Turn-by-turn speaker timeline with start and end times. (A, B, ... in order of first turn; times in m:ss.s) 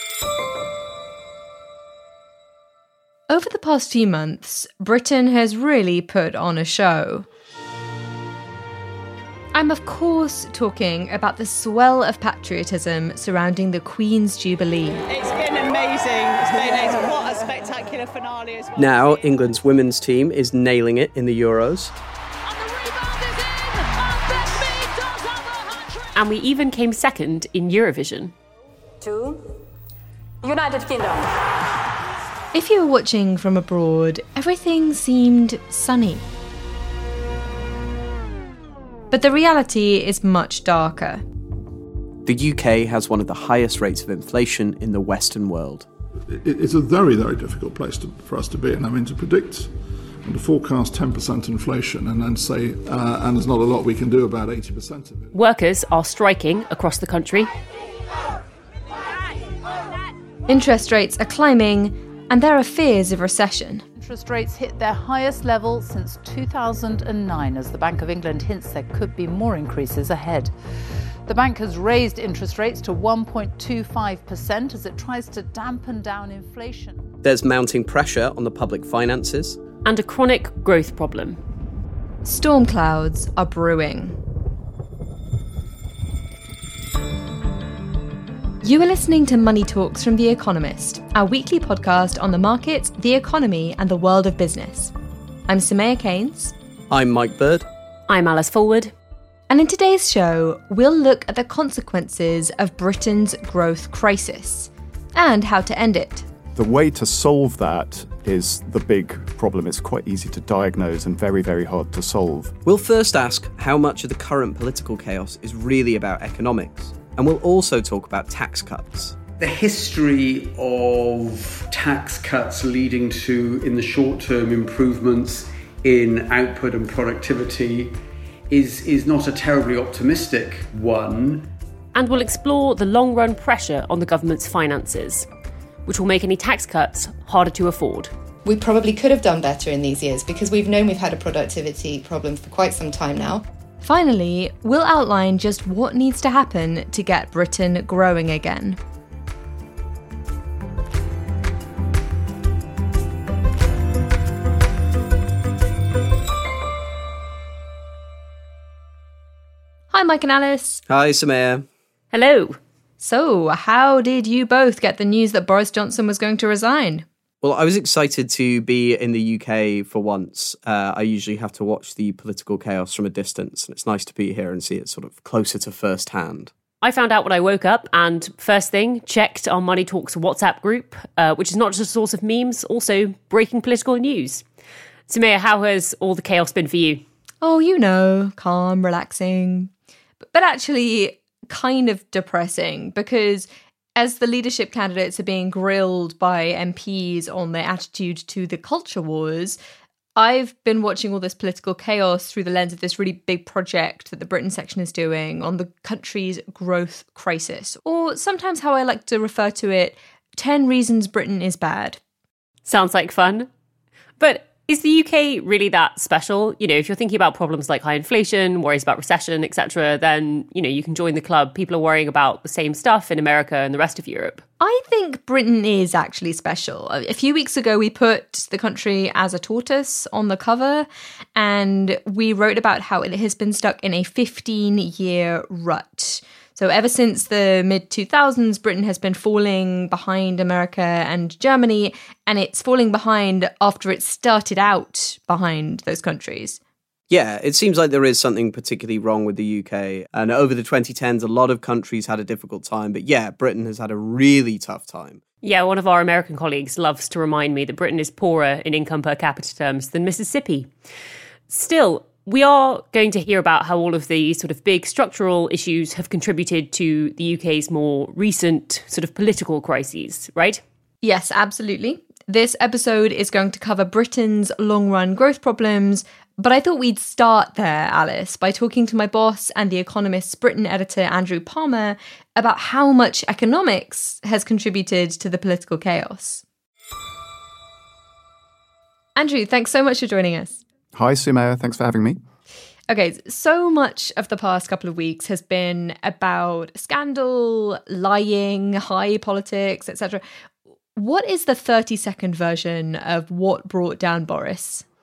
0:03.3-0:07.3 A
0:09.5-0:15.0 A
0:15.1-0:18.9 B
0:18.8-0:22.0 C
0:22.6-0:25.9 B
0:26.1-0:28.3 D
0:29.0-0:29.4 B
0:30.4-0:31.3 B
0:32.5-0:36.2 A
0:39.1-0:41.2 A
0:42.2-0:45.9 C
0:46.3-0:55.3 E
0:55.3-0:57.5 D
1:00.5-1:03.8 A
1:04.0-1:10.5 F
1:11.2-1:17.1 F
1:17.2-1:19.6 C
1:19.8-1:21.4 D
1:22.2-1:24.2 A
1:28.6-1:34.9 A
1:35.5-1:36.5 A
1:36.9-1:37.7 C
1:38.1-1:38.9 D
1:39.5-1:46.3 A
1:46.5-1:52.5 G
1:52.6-1:59.2 C
1:59.4-2:08.0 H
2:08.5-2:11.5 H
2:11.9-2:15.3 D
2:15.8-2:18.1 D
2:18.4-2:23.4 I
2:23.8-2:28.8 A
2:39.9-2:40.8 A
2:40.9-2:41.6 C
2:42.1-2:42.6 D
2:43.0-2:47.0 A
2:47.4-2:56.5 C
2:56.8-3:04.4 D
3:05.1-3:07.0 D
3:07.4-3:09.7 A
3:10.2-3:19.6 A
3:20.2-3:32.0 A
3:32.6-3:33.5 D
3:34.2-3:44.4 D
3:44.6-4:06.6 A
4:07.1-4:15.2 C
4:15.4-4:20.7 D
4:21.5-4:30.6 D
4:31.0-4:46.4 A
4:49.2-4:50.6 A
4:50.9-4:52.2 G
4:52.9-5:00.2 A
5:01.0-5:04.8 A